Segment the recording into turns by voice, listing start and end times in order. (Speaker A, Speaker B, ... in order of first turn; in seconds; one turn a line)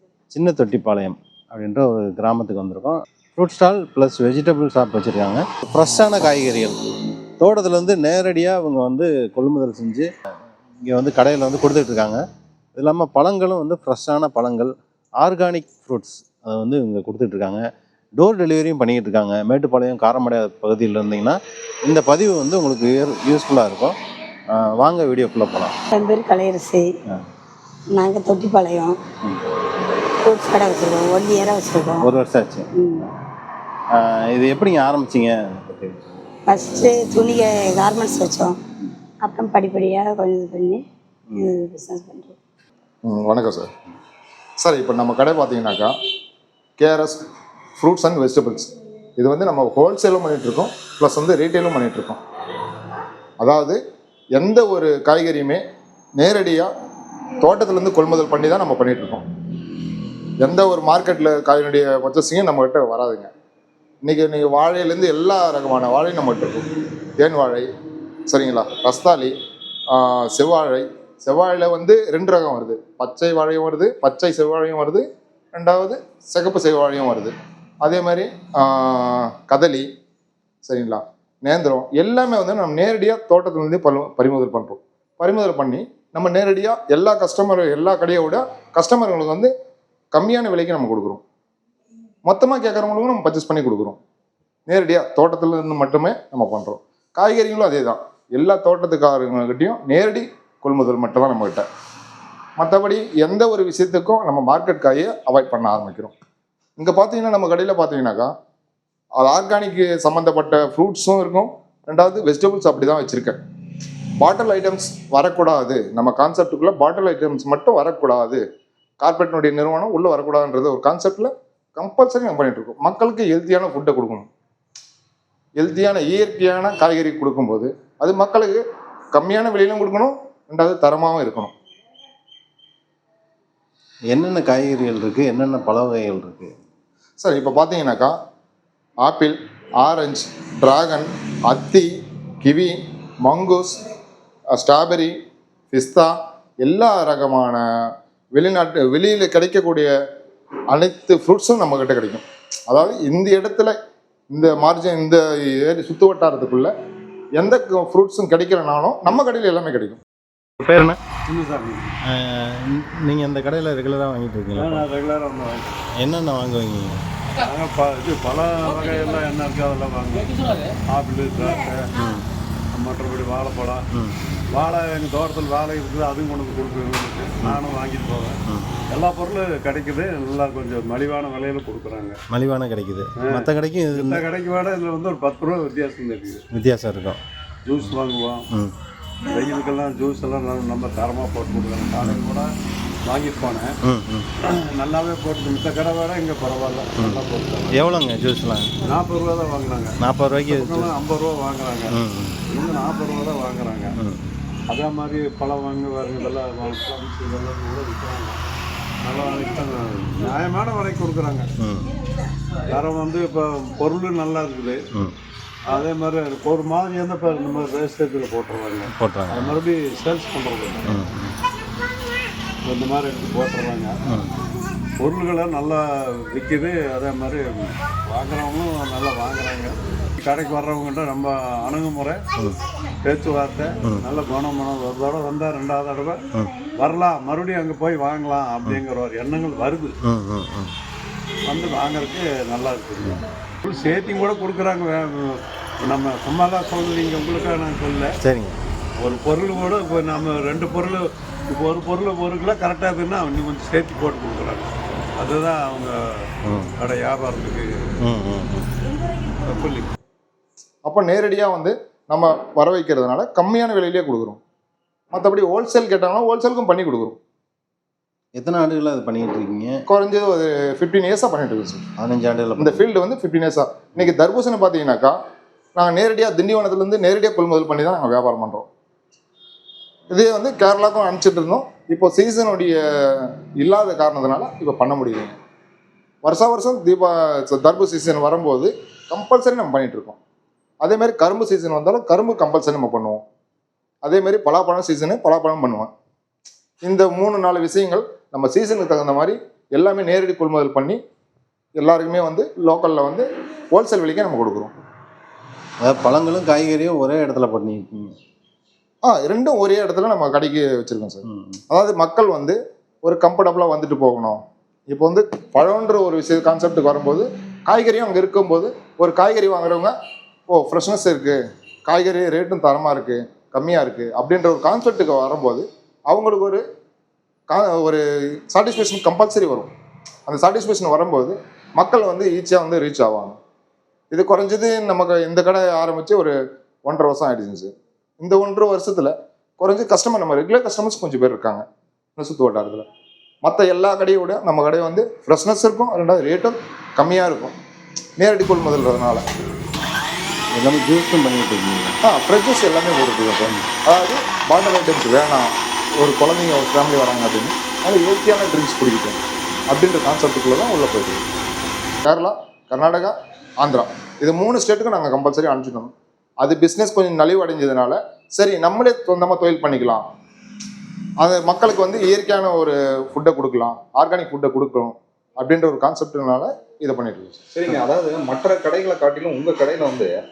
Speaker A: 0.3-6.8
Speaker A: 7.4-10.1
Speaker A: 10.9-12.2
Speaker A: 12.8-17.6
Speaker A: 18.2-24.0
Speaker A: 24.5-25.8
Speaker B: 25.9-27.0
Speaker B: 27.9-29.0
Speaker B: 30.1-32.1
Speaker A: 32.0-32.7
Speaker B: 32.7-33.1
Speaker A: 33.9-36.0
Speaker B: 36.5-38.6
Speaker B: 39.2-40.9
Speaker B: 41.4-42.4
Speaker C: 43.0-43.7
Speaker C: 44.6-45.9
Speaker C: 46.8-47.2
Speaker C: 47.8-52.2
Speaker C: 53.4-53.8
Speaker C: 54.4-55.6
Speaker C: 56.2-56.7
Speaker C: 57.4-59.2
Speaker C: 60.4-63.3
Speaker C: 64.0-66.7
Speaker C: 67.2-67.7
Speaker C: 68.3-69.3
Speaker C: 69.9-79.9
Speaker C: 80.6-89.5
Speaker C: 90.1-91.2
Speaker C: 92.3-94.0
Speaker C: 94.7-101.7
Speaker C: 102.6-106.1
Speaker C: 106.8-108.3
Speaker C: 109.2-113.4
Speaker C: 114.2-118.4
Speaker C: 119.0-124.3
Speaker C: 125.6-128.6
Speaker C: 129.2-131.5
Speaker A: 134.1-136.5
Speaker C: 137.2-138.2
Speaker C: 139.0-141.9
Speaker C: 142.4-143.8
Speaker C: 144.6-145.1
Speaker C: 145.7-147.6
Speaker C: 148.4-149.9
Speaker C: 150.7-153.8
Speaker C: 154.3-156.7
Speaker C: 157.4-160.0
Speaker A: 160.6-161.0
Speaker D: 161.3-161.9
Speaker A: 162.1-164.8
Speaker D: 164.6-165.9
Speaker A: 166.0-167.0
Speaker D: 167.4-171.9
Speaker A: 171.9-172.3
Speaker D: 172.7-173.9
Speaker D: 174.5-178.4
Speaker A: 178.5-178.7
Speaker D: 178.9-182.2
Speaker A: 182.3-184.2
Speaker D: 183.2-186.4
Speaker A: 186.5-187.2
Speaker D: 187.7-188.4
Speaker D: 189.3-192.5
Speaker D: 193.1-193.7
Speaker A: 193.8-194.3
Speaker D: 194.4-197.8
Speaker A: 197.7-198.7
Speaker D: 198.8-200.0
Speaker A: 200.0-200.9
Speaker D: 200.5-201.9
Speaker A: 201.9-202.4
Speaker D: 202.5-203.9
Speaker A: 204.0-204.3
Speaker D: 204.7-208.4
Speaker D: 209.0-211.5
Speaker A: 211.6-211.9
Speaker D: 212.7-214.8
Speaker D: 215.7-220.9
Speaker A: 218.9-219.6
Speaker A: 220.9-221.4
Speaker D: 222.6-223.9
Speaker A: 224.1-224.4
Speaker D: 225.0-232.2
Speaker D: 233.0-236.2
Speaker D: 236.7-240.0
Speaker A: 240.0-240.7
Speaker D: 241.5-248.1
Speaker A: 248.2-248.6
Speaker D: 249.0-256.0
Speaker A: 256.4-256.7
Speaker D: 256.8-257.9
Speaker A: 258.0-258.7
Speaker D: 259.4-259.9
Speaker C: 260.9-264.4
Speaker C: 265.1-267.2
Speaker A: 268.4-269.8
Speaker C: 269.9-271.9
Speaker A: 272.0-272.8
Speaker C: 272.6-275.2
Speaker C: 275.8-278.7
Speaker C: 280.1-285.4
Speaker C: 286.2-290.2
Speaker C: 290.8-293.2
Speaker C: 294.0-295.9
Speaker C: 296.8-301.0
Speaker C: 301.8-304.7
Speaker A: 305.8-308.2
Speaker C: 309.0-319.9
Speaker A: 311.3-311.6
Speaker C: 320.5-326.6
Speaker C: 327.5-329.7
Speaker C: 330.3-333.4
Speaker C: 334.1-341.6
Speaker C: 342.2-342.9
Speaker C: 343.4-347.6
Speaker C: 348.2-349.2
Speaker A: 350.6-352.0
Speaker C: 352.0-355.5
Speaker C: 356.0-361.3
Speaker C: 362.0-370.0
Speaker C: 371.2-377.4
Speaker E: 377.5-380.1